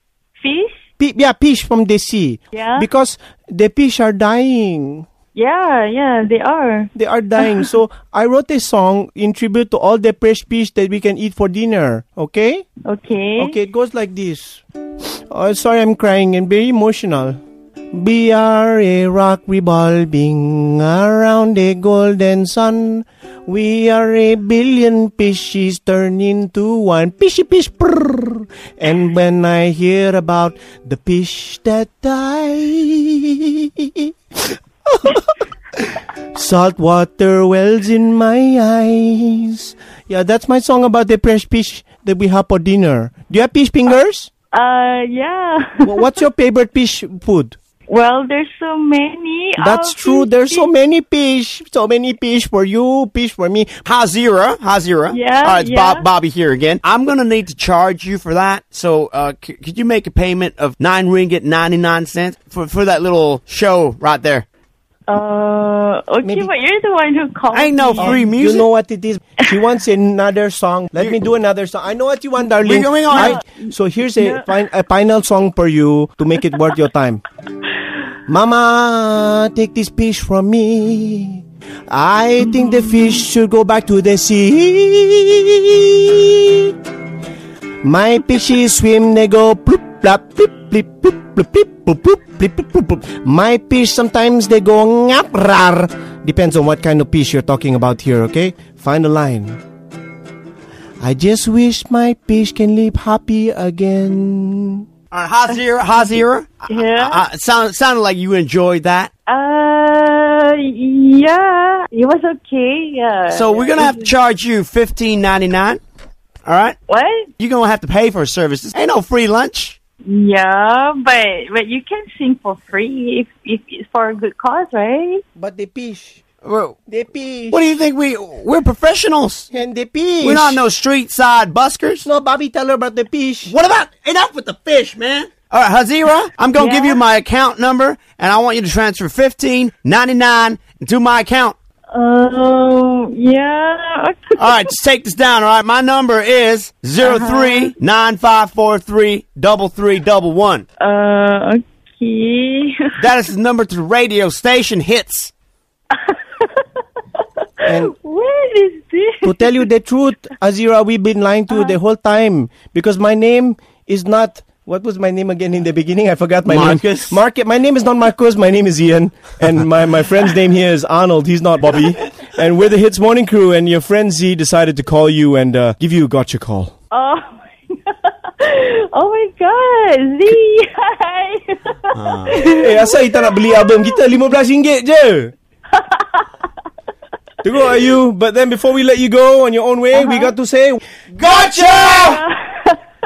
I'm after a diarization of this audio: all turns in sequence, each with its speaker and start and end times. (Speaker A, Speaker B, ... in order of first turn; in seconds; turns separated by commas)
Speaker A: 0.4-0.8, Speaker B: 1.0-5.0, Speaker A: 2.5-2.9, Speaker A: 5.3-7.7, Speaker B: 6.9-12.6, Speaker A: 12.8-13.6, Speaker B: 13.4-14.6, Speaker B: 15.3-17.4, Speaker B: 17.9-44.3, Speaker A: 44.5-46.0, Speaker B: 45.8-47.5, Speaker A: 47.9-50.7, Speaker B: 49.6-53.8, Speaker C: 53.8-64.4, Speaker A: 55.1-56.0, Speaker A: 65.1-68.2, Speaker B: 66.2-66.5, Speaker C: 67.5-68.7, Speaker B: 68.0-77.2, Speaker C: 72.6-73.4, Speaker A: 73.1-74.5, Speaker B: 78.3-86.7, Speaker A: 82.4-83.2, Speaker B: 87.8-99.6, Speaker B: 101.0-104.8, Speaker C: 105.1-109.1, Speaker A: 106.7-107.2, Speaker A: 109.3-114.1, Speaker C: 113.3-115.8, Speaker C: 116.5-116.8, Speaker A: 116.9-117.3, Speaker C: 117.4-119.8, Speaker A: 120.0-125.2, Speaker B: 125.3-126.2, Speaker C: 126.4-126.7, Speaker B: 126.9-127.7, Speaker C: 127.5-129.5, Speaker B: 129.5-130.6, Speaker C: 130.2-132.1, Speaker B: 132.0-133.5, Speaker C: 133.4-141.6, Speaker A: 136.6-137.0, Speaker A: 141.9-144.7, Speaker C: 144.4-150.6, Speaker A: 147.0-147.7, Speaker A: 150.8-152.9, Speaker C: 153.0-155.3, Speaker A: 155.9-156.7, Speaker A: 157.2-159.5, Speaker B: 157.7-157.9, Speaker B: 159.2-176.7, Speaker C: 166.4-167.2, Speaker A: 176.9-184.0, Speaker C: 181.9-182.4, Speaker B: 182.3-185.3, Speaker A: 185.7-186.3, Speaker B: 187.4-190.8, Speaker A: 189.9-190.3, Speaker C: 191.1-192.2, Speaker A: 191.2-192.8